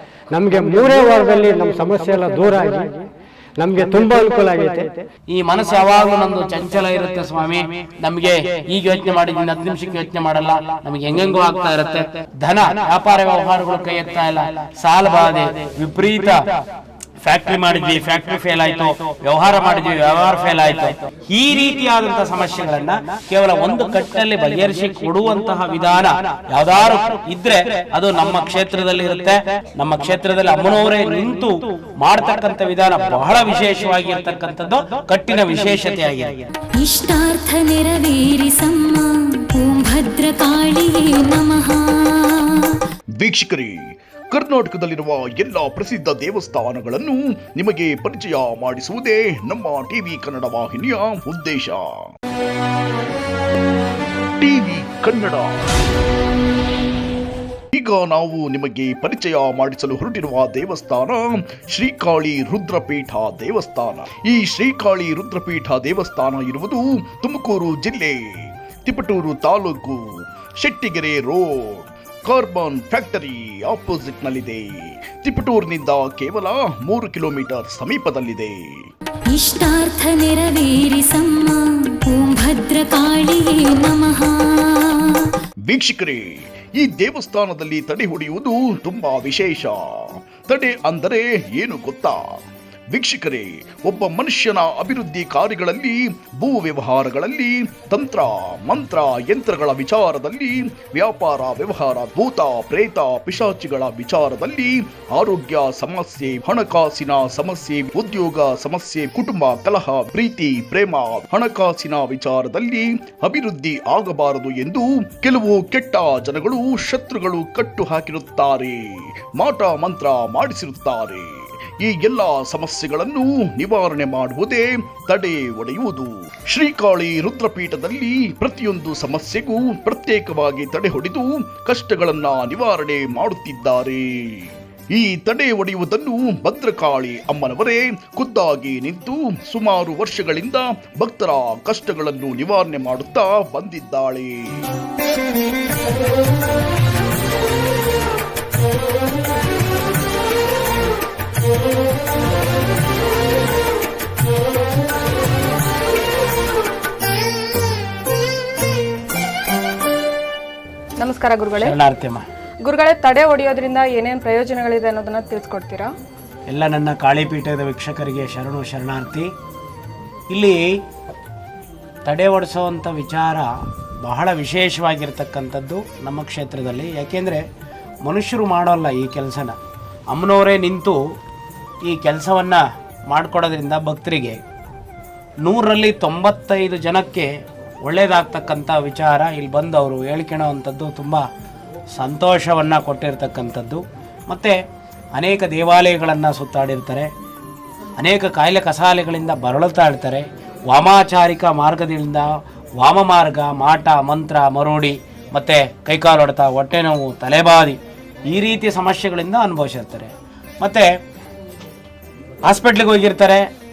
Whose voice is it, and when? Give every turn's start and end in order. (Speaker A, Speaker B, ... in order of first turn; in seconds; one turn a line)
Speaker A: 0.3-3.0
Speaker A: 3.6-5.0
Speaker B: 5.3-16.4
Speaker B: 17.2-36.4
Speaker C: 36.8-42.7
Speaker D: 43.2-52.1
Speaker D: 54.4-55.6
Speaker D: 57.7-70.0
Speaker D: 70.6-74.7
Speaker D: 75.2-78.6
Speaker C: 79.3-85.3
Speaker D: 85.7-92.4
Speaker D: 92.9-144.7
Speaker E: 161.0-161.8
Speaker B: 161.6-162.3
Speaker E: 162.6-165.9
Speaker B: 166.5-169.3
Speaker B: 170.3-170.8
Speaker B: 172.1-173.5
Speaker B: 174.0-177.4
Speaker B: 178.1-179.6
Speaker B: 180.1-181.0
Speaker B: 181.8-184.4
Speaker B: 185.4-187.3
Speaker B: 187.8-191.2
Speaker B: 191.9-194.6
Speaker B: 195.2-197.1
Speaker B: 198.0-202.3
Speaker B: 202.8-207.8
Speaker B: 208.3-210.9
Speaker B: 212.5-213.5